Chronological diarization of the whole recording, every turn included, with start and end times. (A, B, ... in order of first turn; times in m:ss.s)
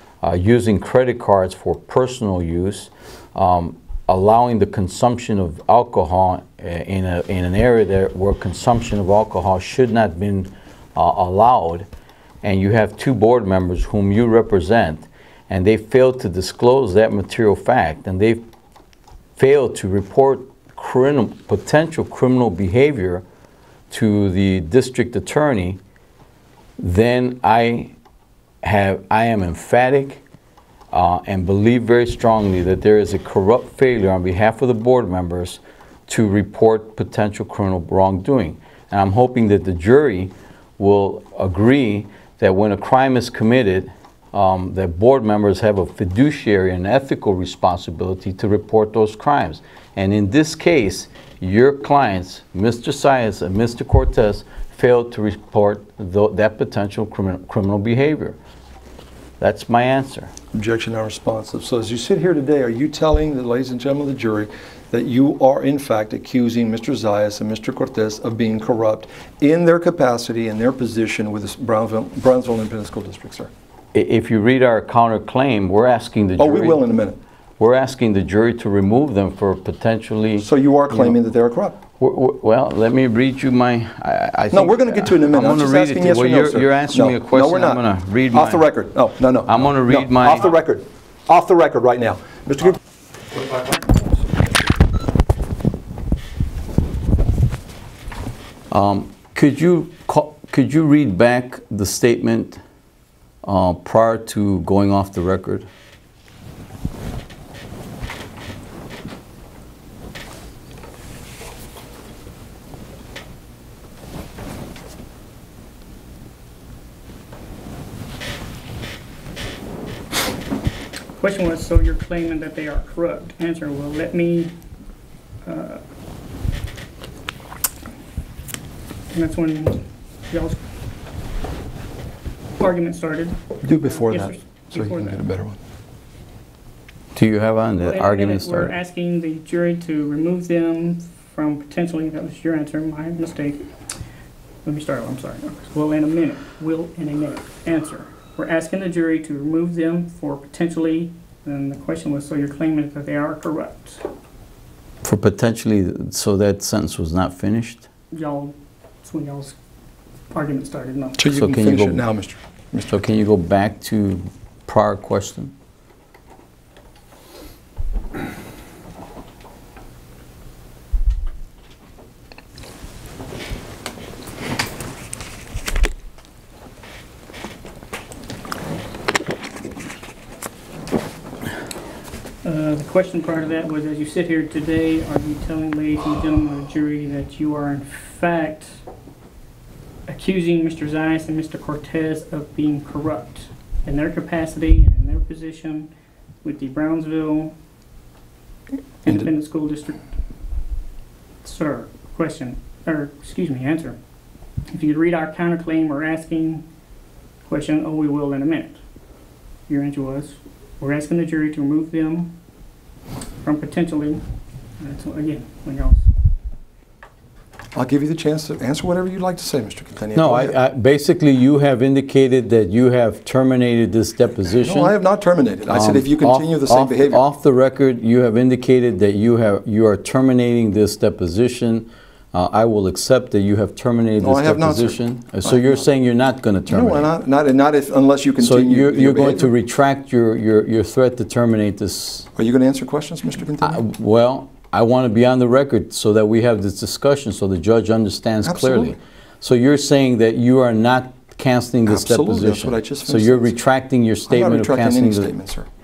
0:00.2-0:11.9 A
0:12.4-0:18.4 A
0:19.4-0:23.2 A
0:23.9-0:25.8 A
0:26.8-0:27.9 A
0:28.6-0:30.2 A
0:30.9-0:58.4 A
0:59.4-1:00.3 A
1:00.5-1:13.5 B
1:13.9-1:16.8 A
1:16.4-1:17.2 B
1:17.6-1:21.2 A
1:20.4-1:21.8 B
1:22.0-1:28.6 A
1:24.5-1:32.8 B
1:29.5-1:30.5 A
1:33.3-1:34.4 B
1:38.7-1:42.6 A
1:43.4-1:45.7 A
2:01.2-2:04.5 C
2:05.4-2:05.8 C
2:09.1-2:10.6 C
2:12.6-2:13.4 C
2:13.6-2:15.6 B
2:14.0-2:15.2 C
2:17.2-2:18.8 A
2:17.8-2:23.7 C
2:24.6-2:34.0 C
2:35.0-2:37.9 A
2:38.1-2:39.6 C
2:40.3-2:41.2 C
2:41.2-2:42.9 B
2:41.2-2:42.0 A
2:42.8-2:45.5 A
3:02.4-3:08.8 C
3:10.1-3:15.9 C
3:16.4-3:17.5 C
3:19.0-3:20.0 C
3:21.4-3:24.0 C
3:24.7-3:26.6 C
3:27.5-3:28.8 C
3:29.7-3:32.3 C
3:33.4-3:34.2 C
3:34.8-3:36.1 C
3:37.7-3:40.6 B
3:40.1-3:45.0 A
3:44.6-3:47.2 B
3:45.7-3:57.1 A
3:54.2-3:55.8 B
3:56.7-3:59.5 B
3:58.4-4:02.3 A
4:02.4-4:03.8 B
4:03.6-4:15.3 A
4:08.4-4:08.9 B
4:11.8-4:13.6 B
4:14.3-4:15.7 B